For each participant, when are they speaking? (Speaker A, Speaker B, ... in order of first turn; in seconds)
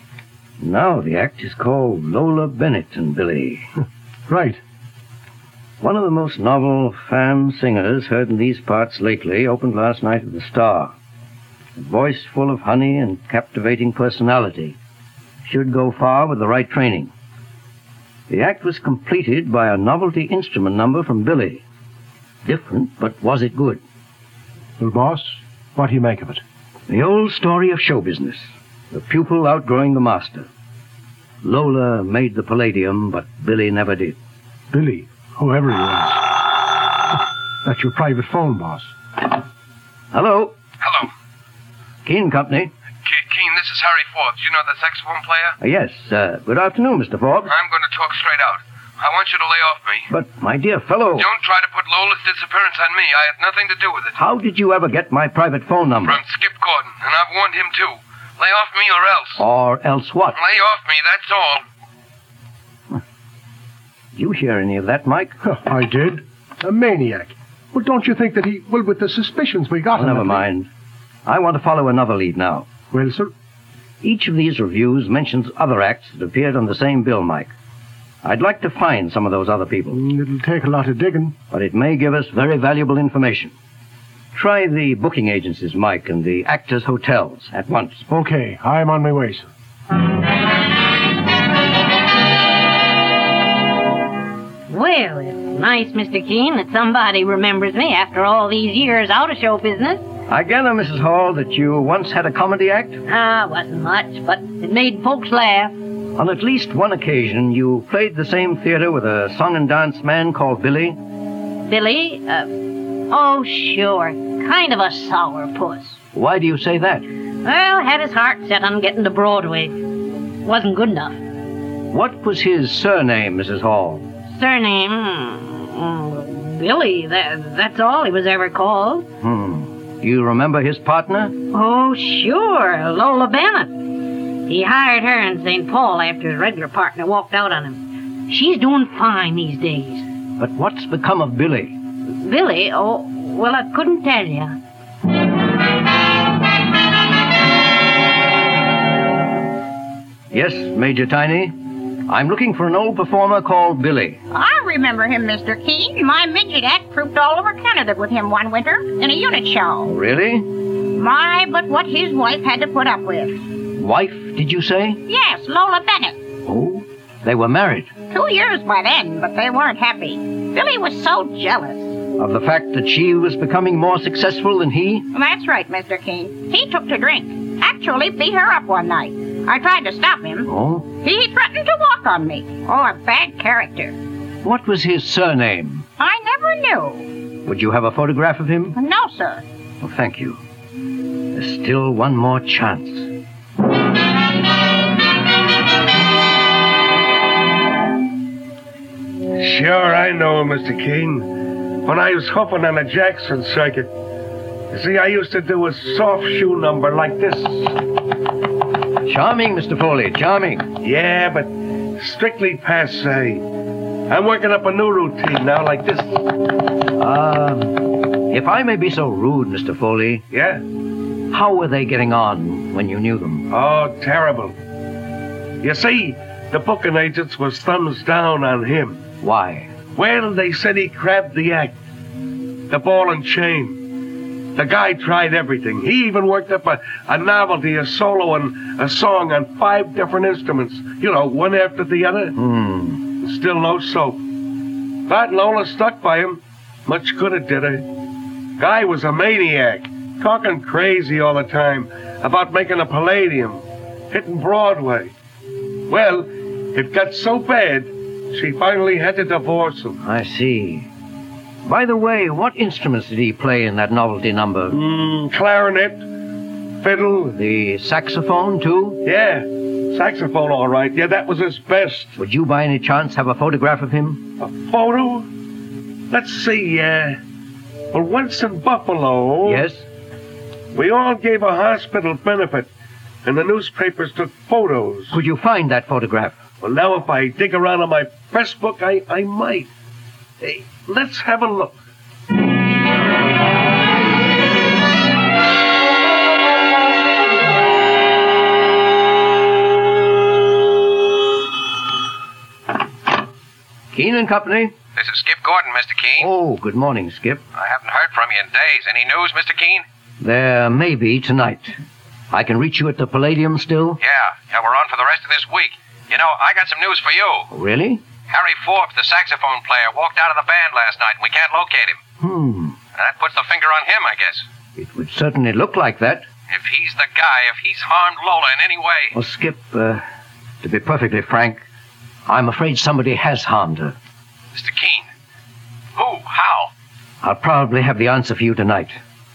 Speaker A: 0.6-3.7, 5.8-10.9, 11.8-14.8, 15.4-17.1, 18.3-21.6, 22.4-23.8, 26.9-30.5, 31.4-34.2, 40.1-40.5, 42.0-42.7, 45.6-47.5, 50.1-51.3, 54.1-56.2, 59.4-60.4, 64.1-65.3, 69.9-70.7, 71.2-72.7, 74.0-77.5, 78.2-80.0, 81.5-83.5, 84.3-88.0, 100.3-103.0, 106.2-111.0, 116.1-117.1, 121.9-124.0, 129.2-131.4, 140.4-141.8, 150.3-154.2, 159.8-160.5, 163.7-165.0, 166.4-167.9, 172.2-175.1, 180.4-180.9, 184.4-185.9, 187.4-188.8, 189.8-190.4, 191.3-193.1, 209.0-210.7, 216.9-220.2, 221.3-223.5, 229.2-229.7, 242.3-243.0, 260.0-260.9, 261.6-264.8, 267.3-269.0, 272.1-274.3, 279.4-279.9, 285.1-286.4, 303.9-304.7, 306.2-307.4, 310.2-311.8, 312.3-314.0, 317.5-318.0, 322.2-322.8, 324.8-326.2, 329.1-330.0, 330.6-331.6, 332.3-333.9, 337.2-339.0
Speaker B: 4.3-4.6, 24.8-26.4, 34.7-36.2, 37.6-38.9, 65.4-70.4, 72.9-73.3, 79.9-81.3, 88.1-89.5
Speaker C: 40.8-41.1, 43.0-45.5, 47.5-50.1, 51.1-54.2, 56.0-59.4, 60.3-61.6
Speaker D: 94.7-100.0, 103.1-105.8, 111.6-116.0, 117.4-119.9, 120.4-121.2, 124.3-129.1, 131.5-140.1, 142.1-144.6
Speaker E: 154.3-159.9, 160.8-163.4, 165.1-166.2, 168.1-172.0, 175.1-184.0, 186.0-187.1, 188.7-189.4
Speaker F: 199.3-203.9, 204.7-207.8, 210.8-213.4, 214.1-216.3, 220.3-220.6, 223.5-224.6, 225.6-229.0, 229.9-231.8, 232.7-233.8, 234.5-242.3, 243.2-244.2, 245.1-247.9, 248.6-255.1, 255.9-260.0, 264.7-266.1, 266.8-267.4, 269.0-272.1, 274.4-275.3, 276.1-277.2, 277.9-279.7, 280.7-282.7, 283.2-285.2, 286.6-289.7, 290.4-291.8
Speaker G: 304.9-306.3, 307.5-309.8, 314.0-317.5, 318.3-322.0, 322.9-324.4, 326.5-329.1, 334.5-335.1, 335.9-336.7